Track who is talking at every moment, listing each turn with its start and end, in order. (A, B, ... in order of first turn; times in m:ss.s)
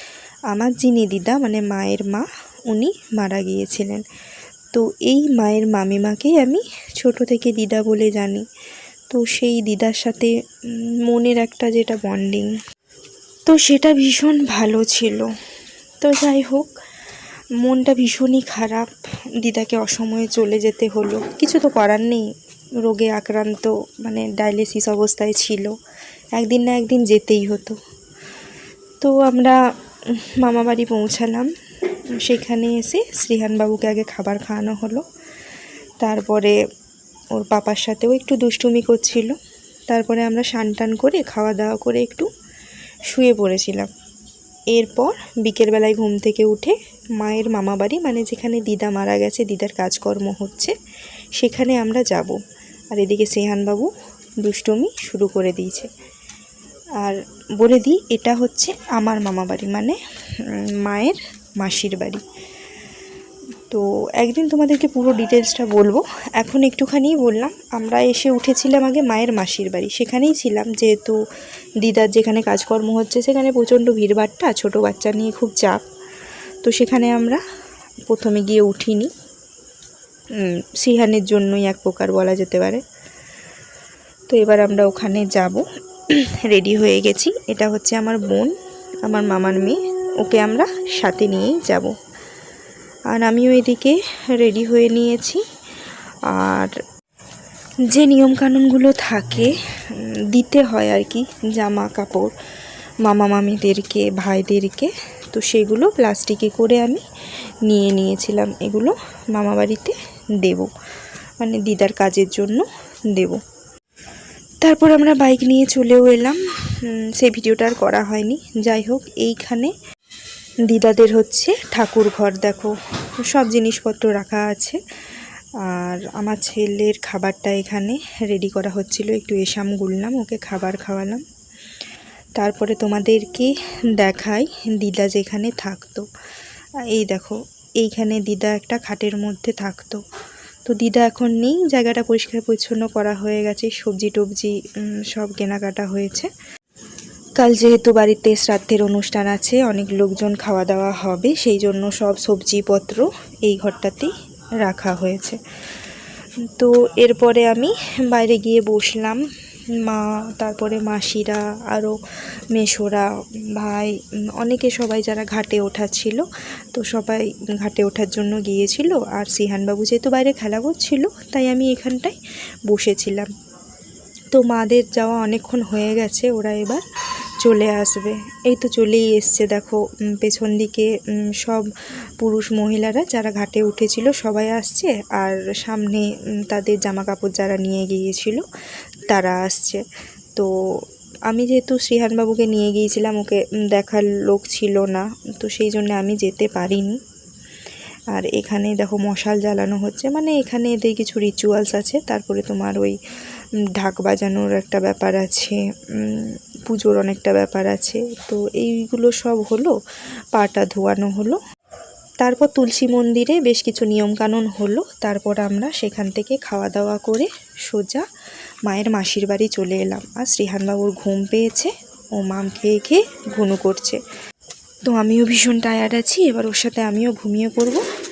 0:00.5-0:04.0 A
0:04.7-0:08.4 A
0:09.1-0:12.5 A
0:13.5-0:15.3 A
0:16.0-0:16.7 A
0:17.6-0:22.3 A
0:22.8-0:25.7 A
0:26.4-0:27.8 A
0:29.0-0:29.6 A
0:30.2-0:31.5 A
0:32.2-0:35.0 A
0:36.0-0:36.6 A
0:37.3-0:39.4 A
0:39.9-0:42.3 A
0:43.1-0:43.9 A
0:44.7-0:50.8 A
0:51.4-0:52.4 A
0:52.9-0:55.9 A
0:57.0-1:02.2 A
1:03.7-1:11.2 A
1:11.8-1:15.8 A
1:16.6-1:17.4 A
1:18.1-1:19.1 A
1:20.3-1:22.8 A
1:24.3-1:28.5 A
1:29.0-1:32.0 A
1:33.1-1:35.4 A
1:36.3-1:36.8 A
1:37.9-1:42.3 A
1:43.0-1:47.0 A
1:47.7-1:50.7 A
1:51.4-1:53.4 A
1:54.6-1:59.7 A
2:00.7-2:02.8 A
2:03.3-2:04.8 A
2:05.6-2:11.2 A
2:12.4-2:16.1 A
2:16.9-2:20.0 A
2:20.7-2:26.3 A
2:27.4-2:34.1 A
2:34.6-2:35.4 A
2:36.4-2:39.2 A
2:39.8-2:42.0 A
2:42.5-2:52.2 A
2:52.7-2:53.3 A
2:54.3-2:56.8 A
2:57.4-3:01.7 A
3:02.2-3:08.4 A
3:09.1-3:09.8 A
3:11.3-3:17.0 A
3:18.1-3:23.0 A
3:23.8-3:29.8 A
3:30.3-3:31.4 A
3:32.2-3:38.0 A
3:38.7-3:44.0 A
3:44.9-3:47.8 A